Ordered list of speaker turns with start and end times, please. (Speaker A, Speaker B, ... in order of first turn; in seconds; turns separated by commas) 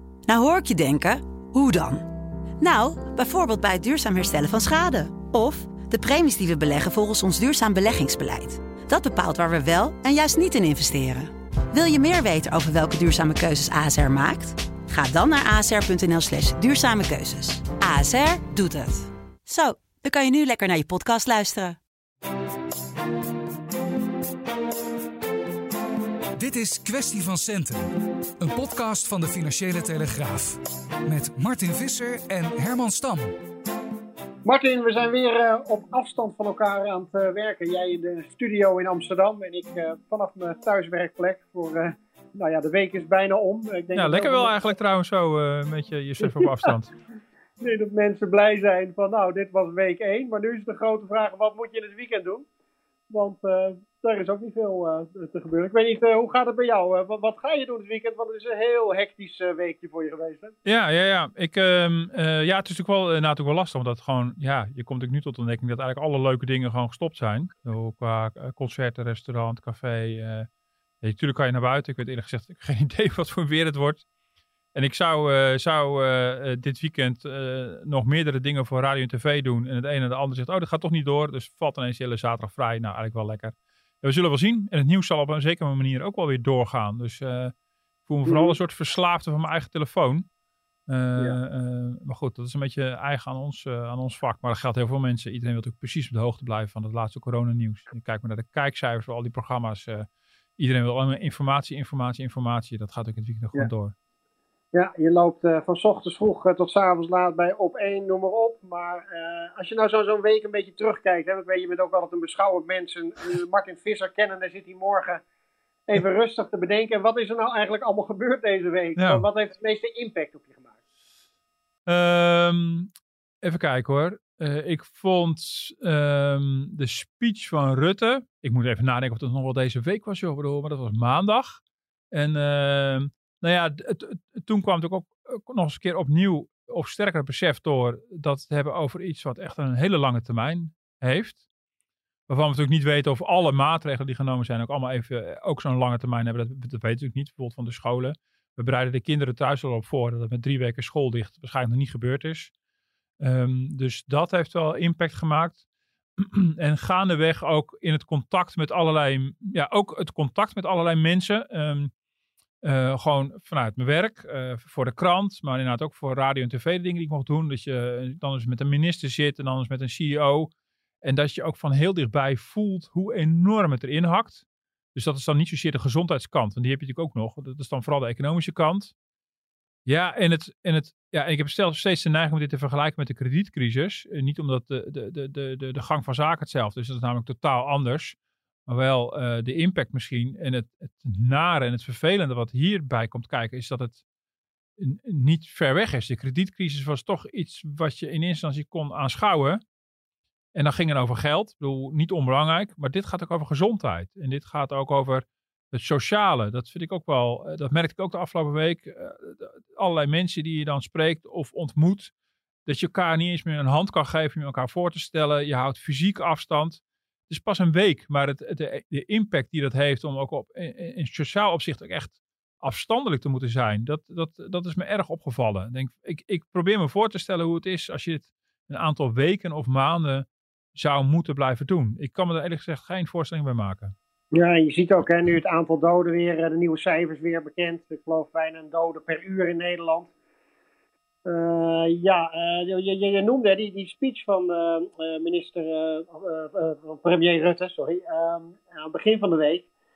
Speaker A: 0.3-2.0, Speaker A: 2.6-21.8, Speaker B: 26.4-33.3, Speaker C: 34.4-44.5, Speaker D: 43.9-46.9, Speaker C: 46.2-46.7, Speaker C: 47.6-52.5, Speaker C: 53.1-60.5, Speaker D: 60.6-70.5, Speaker D: 71.0-74.0, Speaker D: 74.7-87.5, Speaker D: 88.0-90.3, Speaker C: 88.2-88.6, Speaker D: 90.9-100.1, Speaker D: 100.6-103.9, Speaker C: 104.7-115.2, Speaker C: 115.9-120.7, Speaker D: 119.0-119.2, Speaker D: 121.9-122.9, Speaker D: 123.4-141.4, Speaker D: 142.3-152.5, Speaker D: 153.2-155.6, Speaker D: 156.2-161.9, Speaker D: 162.6-170.5, Speaker D: 171.0-174.4, Speaker D: 174.9-178.9, Speaker D: 179.8-194.0, Speaker D: 194.8-199.6, Speaker D: 200.5-212.1, Speaker D: 212.7-233.9, Speaker C: 234.3-240.1, Speaker C: 241.2-249.7